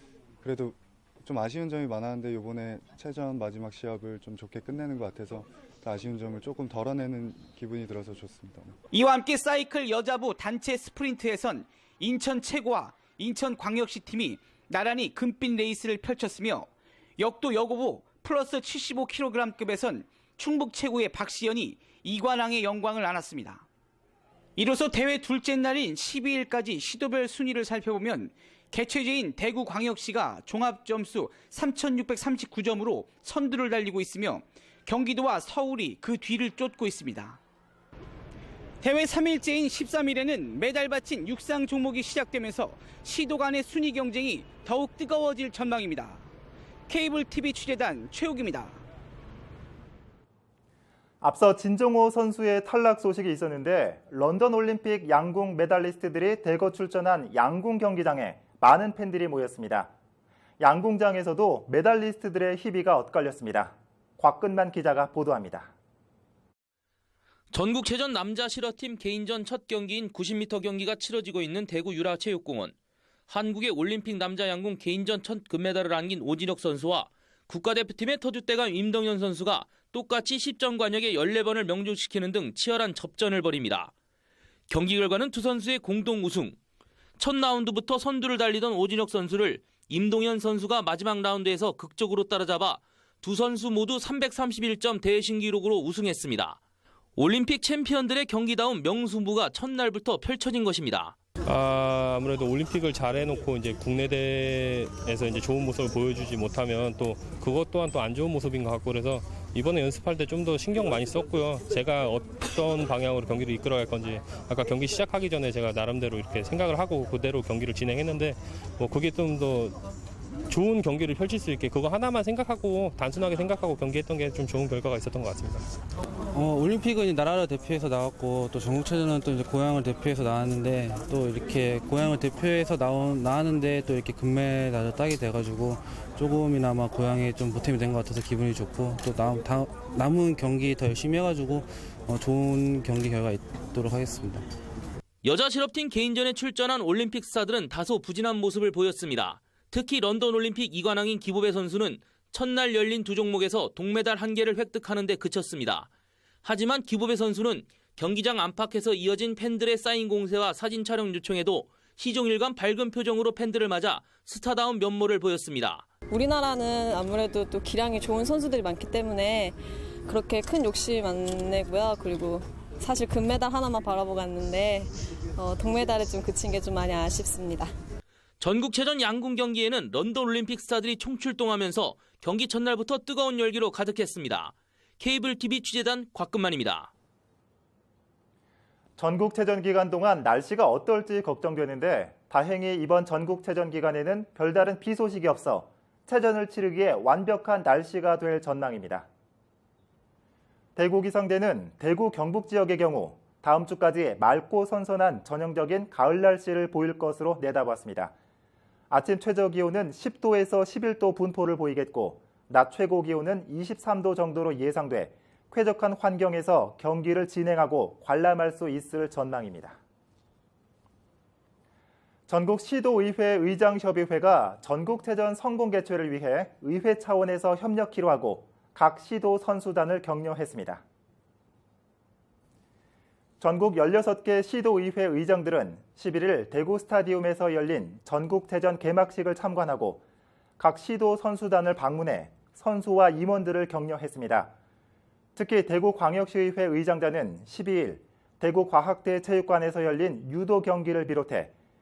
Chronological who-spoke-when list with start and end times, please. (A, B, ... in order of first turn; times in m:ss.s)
0:00.4-0:08.7 A
0:08.9-0:23.7 B
0:24.6-0:37.4 B
0:38.8-0:46.3 B
0:46.9-0:48.8 B
0:51.2-0:59.9 C
1:00.6-1:05.7 C
1:07.5-1:12.7 D
1:13.3-1:23.9 D
1:24.7-1:26.6 D
1:27.2-1:36.6 D
1:37.2-1:41.2 D
1:41.5-1:59.8 E
2:00.5-2:05.6 E
2:06.3-2:24.4 F
2:25.2-2:35.9 D
2:36.4-2:45.8 D
2:46.1-2:57.7 G
2:58.4-3:06.9 D
3:09.0-3:19.1 C
3:20.8-3:28.1 C
3:28.9-3:39.8 C
3:42.3-3:50.8 C
3:53.4-4:00.0 C
4:00.6-4:04.5 C
4:05.4-4:11.5 C